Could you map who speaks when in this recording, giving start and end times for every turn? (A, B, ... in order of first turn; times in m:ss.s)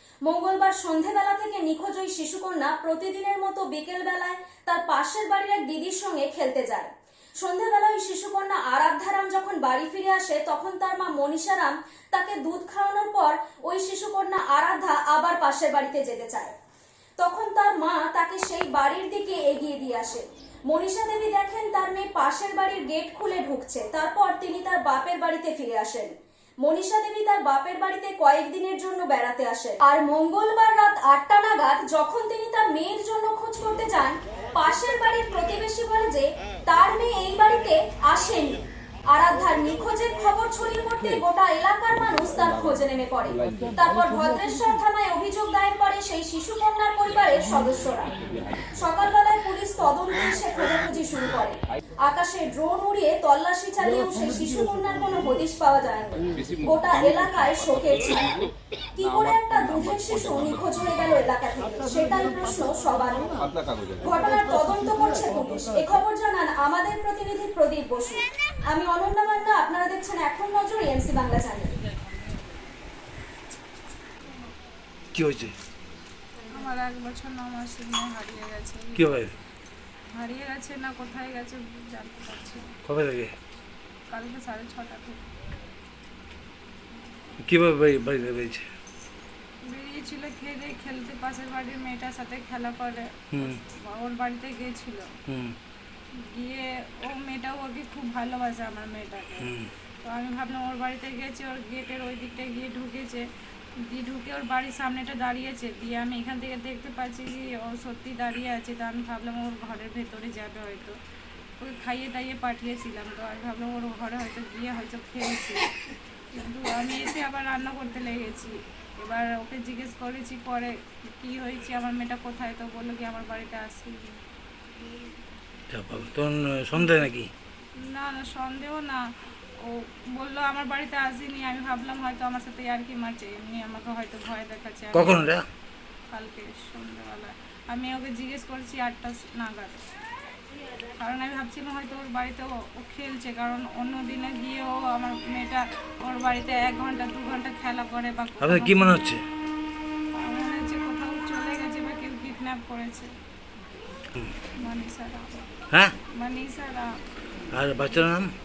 0:00.2-0:06.9 A
0:07.4-0:16.5 A
0:17.2-0:26.1 A
0:26.6-0:48.1 A
0:48.8-0:58.3 A
0:59.0-1:03.4 A
1:04.0-1:11.7 A
1:15.1-1:15.5 B
1:16.5-1:19.3 C
1:18.9-1:19.3 B
1:20.1-1:22.7 C
1:22.8-1:23.3 B
1:24.1-1:25.2 C
1:27.4-1:28.6 B
1:29.6-1:35.1 C
1:33.3-1:33.6 B
1:35.3-1:35.6 B
1:36.1-1:43.3 C
1:39.4-1:39.7 B
1:43.8-1:51.0 C
1:51.6-1:55.7 C
1:56.3-2:04.2 C
2:05.7-2:07.3 B
2:07.8-2:09.0 C
2:09.6-2:15.3 C
2:14.9-2:15.4 B
2:16.1-2:19.8 C
2:21.0-2:29.0 C
2:28.4-2:29.2 B
2:30.2-2:33.1 C
2:34.6-2:35.5 C
2:36.1-2:37.0 C
2:37.5-2:38.3 B